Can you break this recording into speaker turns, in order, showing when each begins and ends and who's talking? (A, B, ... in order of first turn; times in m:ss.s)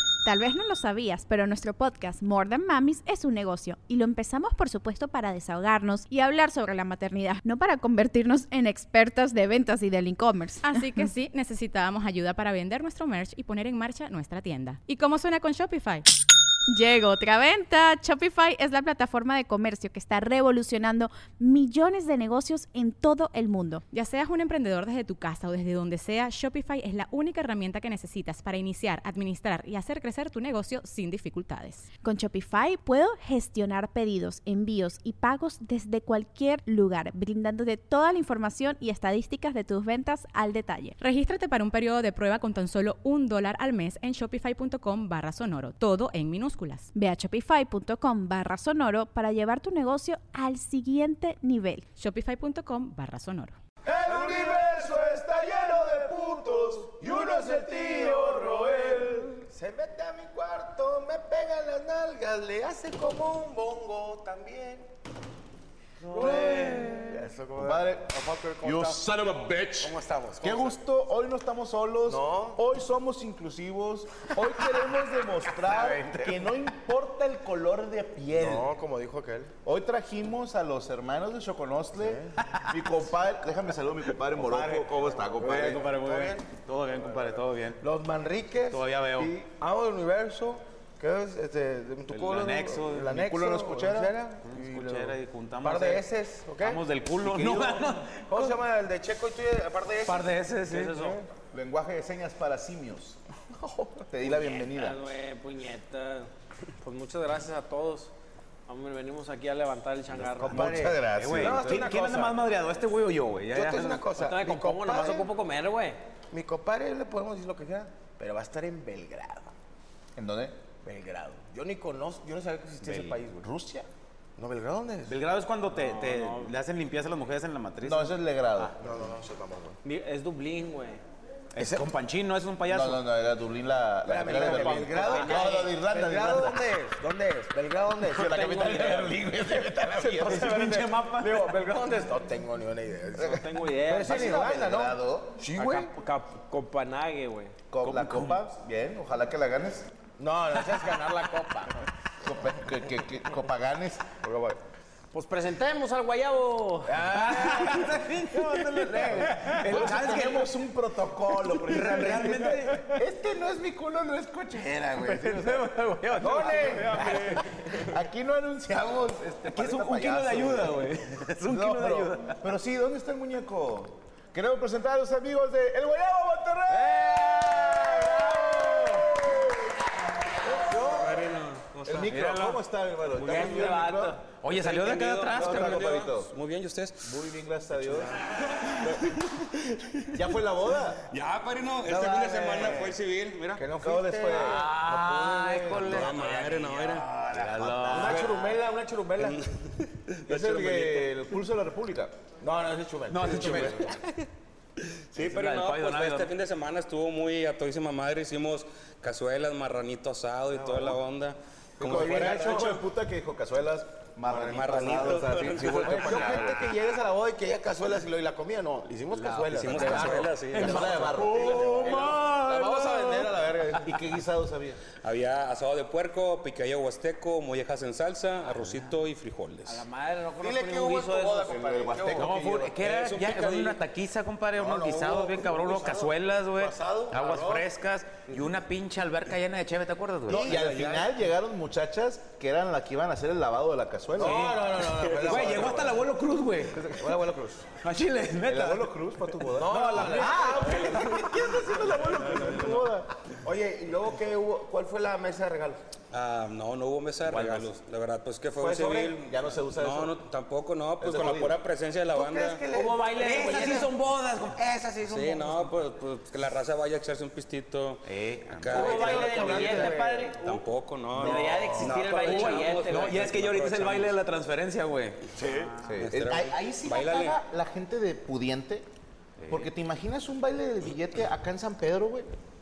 0:00.2-0:11.1 A
0:10.6-0:16.0 B
0:16.7-0:23.8 A
0:23.9-0:31.9 B
0:32.0-0:41.0 A
0:41.0-0:46.9 B
0:46.9-0:51.8 A
0:52.0-0:53.6 B
0:53.8-0:59.5 C
0:53.8-1:04.9 D
1:06.0-1:07.2 E
1:06.1-1:09.0 D
1:06.1-1:18.7 C
1:09.8-1:10.8 D
1:12.1-1:12.6 D
1:15.6-1:16.5 E
1:18.3-1:19.5 D
1:19.6-1:25.8 C
1:22.0-1:22.4 D
1:22.4-1:23.0 E
1:24.1-1:24.9 E
1:24.4-1:24.8 D
1:25.3-1:26.4 D
1:25.4-1:27.8 E
1:27.8-1:28.8 D
1:28.7-1:29.4 E
1:29.4-1:36.8 D
1:32.1-1:33.2 E
1:33.1-1:34.1 C
1:34.4-1:36.0 E
1:36.6-1:38.6 E
1:37.2-1:38.0 C
1:38.3-1:41.2 D
1:40.0-1:41.2 E
1:40.7-1:41.2 F
1:41.5-1:43.2 C
1:43.5-1:44.1 D
1:44.1-1:45.0 C
1:44.2-1:46.3 F
1:46.8-1:48.1 F
1:48.7-1:50.8 F
1:50.4-1:52.4 D
1:50.4-1:51.9 C
1:51.1-1:54.1 E
1:53.5-1:55.3 D
1:54.2-1:56.0 F
1:56.3-1:59.5 D
2:00.2-2:00.6 C
2:00.8-2:03.4 D
2:02.8-2:03.2 E
2:03.4-2:03.9 C
2:04.4-2:05.2 D
2:05.1-2:08.7 E
2:05.7-2:06.5 F
2:07.8-2:08.7 C
2:08.8-2:09.8 D
2:09.8-2:11.0 F
2:11.5-2:13.0 E
2:11.6-2:11.9 D
2:12.7-2:16.6 C
2:14.0-2:25.9 D
2:14.3-2:15.7 F
2:18.1-2:20.6 C
2:18.2-2:21.6 E
2:23.2-2:23.4 C
2:23.2-2:24.4 F
2:24.0-2:25.4 C
2:25.6-2:27.6 F
2:27.7-2:29.9 C
2:27.8-2:28.4 E
2:30.2-2:31.8 D
2:32.2-2:34.1 C
2:34.2-2:34.6 D
2:35.1-2:37.0 F
2:36.9-2:38.1 D
2:37.0-2:40.5 E
2:38.6-2:45.0 C
2:39.3-2:39.8 F
2:39.8-2:40.1 D
2:41.5-2:43.0 E
2:44.7-2:45.6 D
2:45.0-2:47.4 E
2:45.3-2:47.9 F
2:46.1-2:47.8 D
2:46.2-2:50.9 C
2:49.5-2:52.4 E
2:51.4-2:59.8 C
2:56.7-2:59.3 E
3:00.4-3:01.0 C
3:00.5-3:01.2 D
3:00.7-3:02.2 G
3:01.9-3:04.2 C
3:02.0-3:02.6 E
3:03.2-3:03.9 G
3:03.2-3:05.9 E
3:03.3-3:04.1 F
3:04.5-3:07.1 G
3:05.3-3:06.3 C
3:07.0-3:08.2 C
3:07.9-3:10.2 G
3:08.8-3:09.1 C
3:10.1-3:11.0 C
3:11.0-3:13.6 G
3:11.9-3:12.9 D
3:11.9-3:12.9 C
3:13.6-3:14.8 D
3:13.8-3:16.4 C
3:14.3-3:18.5 E
3:15.7-3:17.1 G
3:17.3-3:18.3 C
3:17.9-3:19.4 D
3:19.2-3:21.1 G
3:20.3-3:22.1 C
3:22.4-3:24.0 D
3:23.1-3:24.1 E
3:23.2-3:24.0 C
3:24.9-3:32.8 G
3:25.2-3:26.3 E
3:31.8-3:36.7 C
3:31.8-3:32.7 D
3:34.3-3:35.3 D
3:34.3-3:36.5 G
3:35.8-3:44.0 D
3:39.1-3:43.0 C
3:39.5-3:41.1 G
3:40.5-3:43.1 E
3:43.8-3:44.8 C
3:45.0-3:49.8 G
3:48.6-3:48.9 E
3:49.6-3:51.6 F
3:50.4-3:52.5 D
3:51.5-3:52.7 C
3:52.1-4:00.5 E
3:52.8-3:53.8 G
3:54.5-3:57.7 D
4:00.3-4:00.9 D
4:00.3-4:04.5 C
4:00.5-4:00.9 G
4:04.2-4:06.1 D
4:04.2-4:06.8 E
4:05.0-4:05.6 G
4:06.7-4:07.1 C
4:06.9-4:07.7 D
4:07.8-4:08.9 E
4:08.4-4:13.1 C
4:09.5-4:15.8 D
4:09.6-4:10.9 E
4:16.1-4:22.7 G
4:17.2-4:17.7 E
4:18.6-4:19.1 D
4:19.2-4:20.2 C
4:21.0-4:21.6 C
4:22.1-4:23.9 D
4:22.7-4:23.9 F
4:22.8-4:24.6 E
4:24.6-4:25.5 D
4:25.0-4:34.2 G
4:28.1-4:30.0 E
4:28.7-4:30.6 F
4:28.7-4:30.3 D
4:31.2-4:33.0 D
4:31.2-4:33.3 F
4:31.2-4:35.9 E
4:35.4-4:35.7 D
4:35.8-4:38.9 C
4:35.9-4:37.4 G
4:39.4-4:39.7 E
4:39.5-4:42.3 C